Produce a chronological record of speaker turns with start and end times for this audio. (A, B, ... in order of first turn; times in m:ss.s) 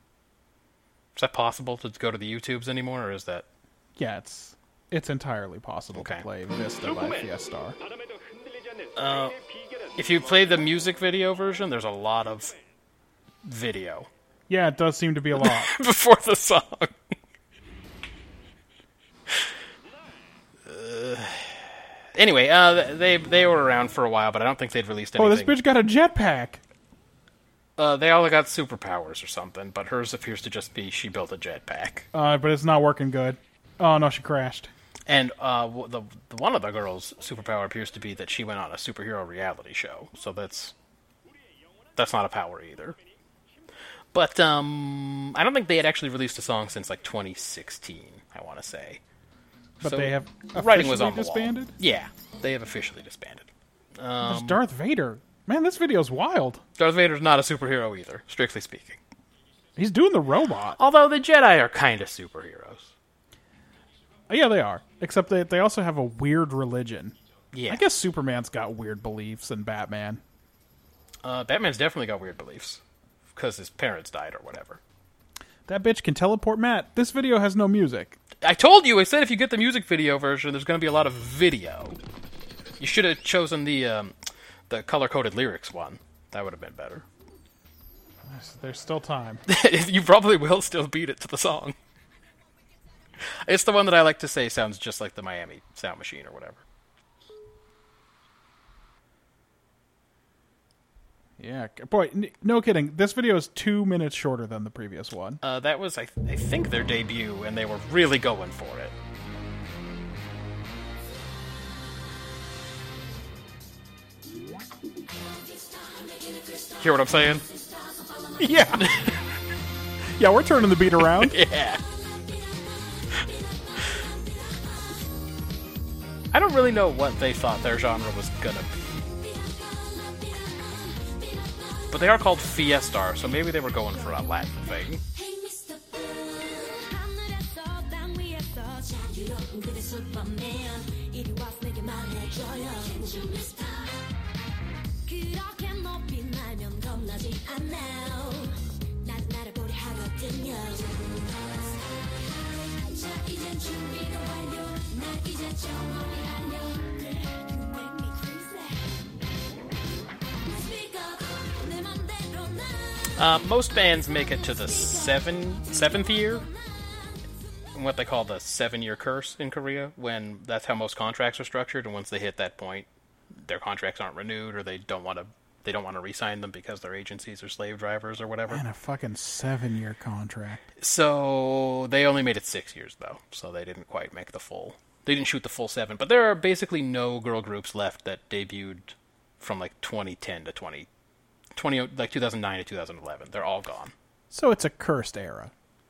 0:01.2-0:03.5 A
0:04.0-0:07.8 B
0:05.9-0:06.2 A
0:09.0-0:09.4 A
0:10.0-0:12.6 A
0:13.4-0:14.1 A
0:14.5-0:15.7 B
0:15.4-0:16.9 A
0:20.7-0:25.6 A
0:25.2-0:26.6 B
0:27.8-0:32.1 A
0:32.1-0:34.7 B
0:35.1-0:40.8 A
0:42.0-0:43.0 A
0:44.1-0:49.0 A
0:49.8-0:54.6 A
0:49.8-0:51.7 B
0:54.2-0:56.6 B
0:56.8-0:59.0 A
0:59.8-1:00.8 B
1:00.8-1:02.9 A
1:04.3-1:07.2 B
1:07.5-1:07.8 A
1:07.7-1:10.2 B
1:11.2-1:12.8 A
1:13.3-1:14.8 A
1:15.7-1:18.2 B
1:18.4-1:22.0 A
1:22.8-1:24.2 A
1:24.7-1:27.1 A
1:28.3-1:29.4 B
1:29.5-1:31.8 A
1:33.2-1:36.6 A
1:41.4-1:45.4 B
1:45.4-1:49.0 A
1:55.1-1:59.2 C
1:56.8-1:57.4 A
1:58.4-1:58.9 B
1:58.8-1:59.2 A
2:00.2-2:01.3 B
2:01.0-2:01.8 A
2:01.8-2:04.8 C
2:06.3-2:08.9 A
2:09.1-2:24.0 C
2:11.9-2:15.0 A
2:25.0-2:39.1 C
2:40.4-2:43.3 C
2:43.2-2:46.5 A
2:44.2-2:47.3 C
2:47.7-2:58.6 A
2:58.5-3:00.7 B
3:00.8-3:10.9 A
3:11.6-3:13.9 A
3:14.3-3:15.5 B